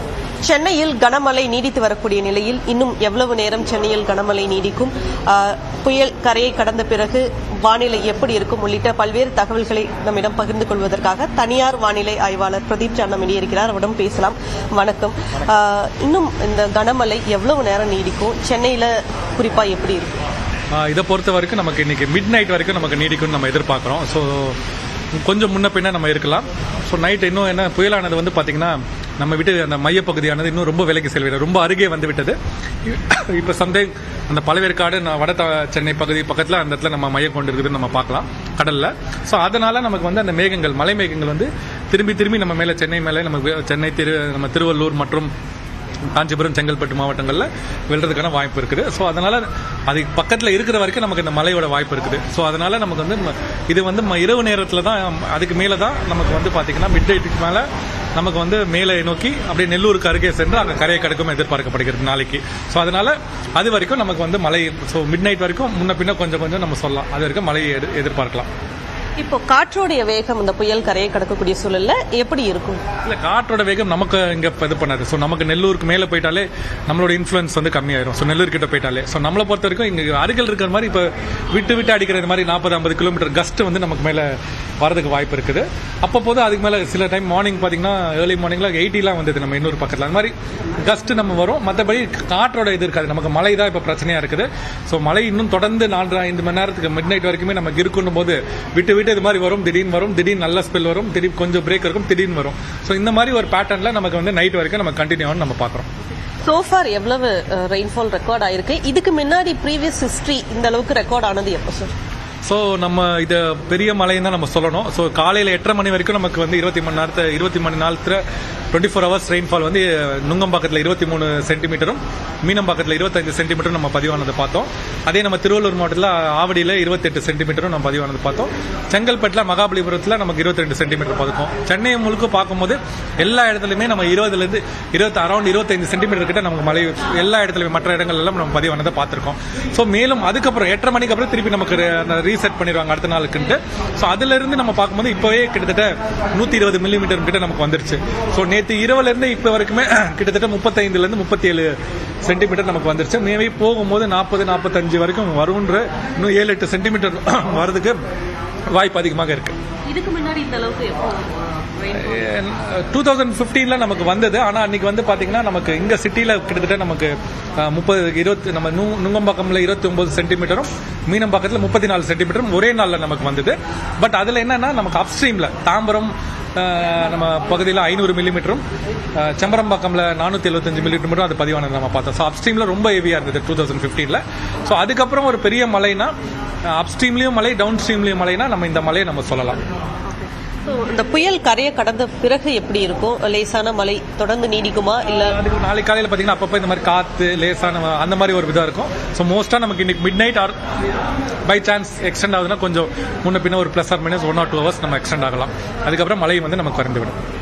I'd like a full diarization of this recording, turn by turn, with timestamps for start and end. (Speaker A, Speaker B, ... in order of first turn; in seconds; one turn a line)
Speaker A: 0.4-20.1
Speaker B: 20.7-24.6
Speaker B: 25.2-45.3
Speaker B: 46.1-68.5
Speaker A: 69.2-72.8
Speaker B: 73.0-105.9
Speaker A: 106.4-111.9
Speaker B: 112.5-118.2
Speaker B: 118.7-158.0
Speaker B: 158.7-159.6
Speaker A: 159.9-162.1
Speaker B: 161.9-178.6
Speaker B: 179.2-186.1
Speaker B: 186.7-189.6
Speaker A: 190.7-195.4
Speaker B: 195.3-200.5
Speaker B: 201.5-207.2